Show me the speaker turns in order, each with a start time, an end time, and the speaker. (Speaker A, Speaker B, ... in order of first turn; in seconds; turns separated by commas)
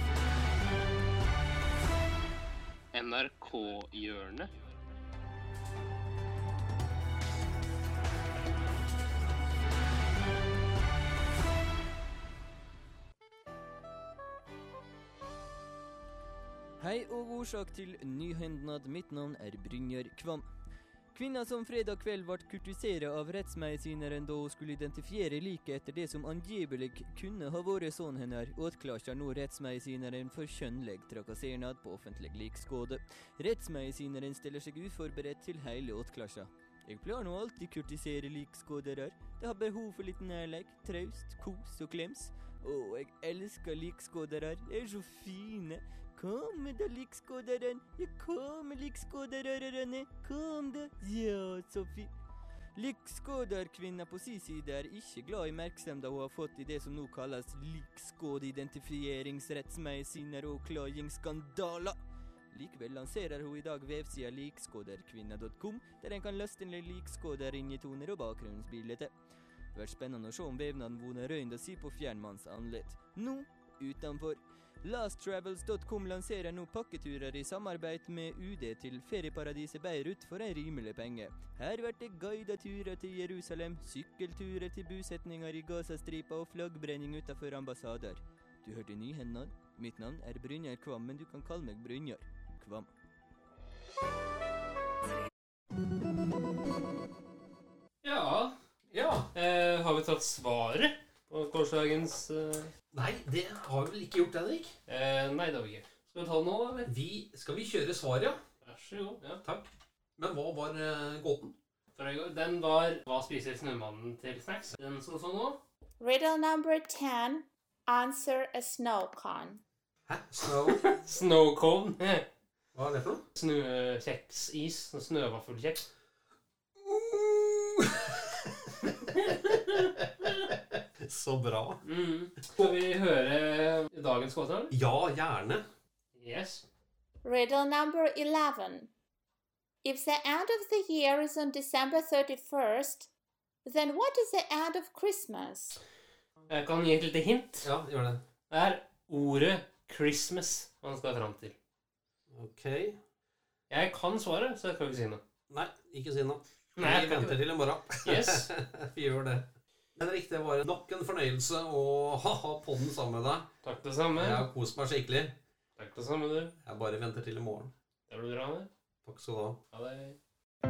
Speaker A: 2.9-4.5, Speaker B: 16.8-20.5, Speaker B: 21.1-52.1, Speaker B: 52.7-62.0, Speaker B: 62.5-69.1, Speaker B: 69.7-92.9, Speaker A: 98.0-98.5, Speaker C: 98.9-99.3, Speaker A: 99.3-102.7, Speaker C: 102.9-104.7, Speaker A: 104.9-106.9, Speaker C: 106.8-108.4, Speaker A: 108.6-109.4, Speaker C: 109.4-111.5, Speaker A: 111.9-115.6, Speaker D: 116.0-119.6, Speaker C: 120.1-120.8, Speaker A: 120.7-122.2, Speaker C: 122.7-123.2, Speaker A: 123.3-125.9, Speaker C: 126.8-128.5, Speaker A: 128.9-129.9, Speaker C: 131.0-131.8, Speaker A: 131.8-134.7, Speaker C: 134.7-135.6, Speaker A: 136.1-136.6, Speaker D: 137.2-138.9, Speaker D: 139.8-143.1, Speaker D: 143.6-145.8, Speaker A: 146.5-147.7, Speaker C: 147.6-148.2, Speaker A: 148.5-151.5, Speaker C: 152.3-153.0, Speaker A: 153.7-155.2, Speaker C: 155.5-159.4, Speaker A: 156.8-157.4, Speaker A: 157.9-158.5, Speaker C: 160.0-163.5, Speaker A: 163.6-164.5, Speaker C: 164.2-165.3, Speaker A: 165.8-166.6, Speaker C: 166.6-167.7, Speaker A: 168.1-168.7, Speaker C: 169.0-169.6, Speaker A: 169.7-170.2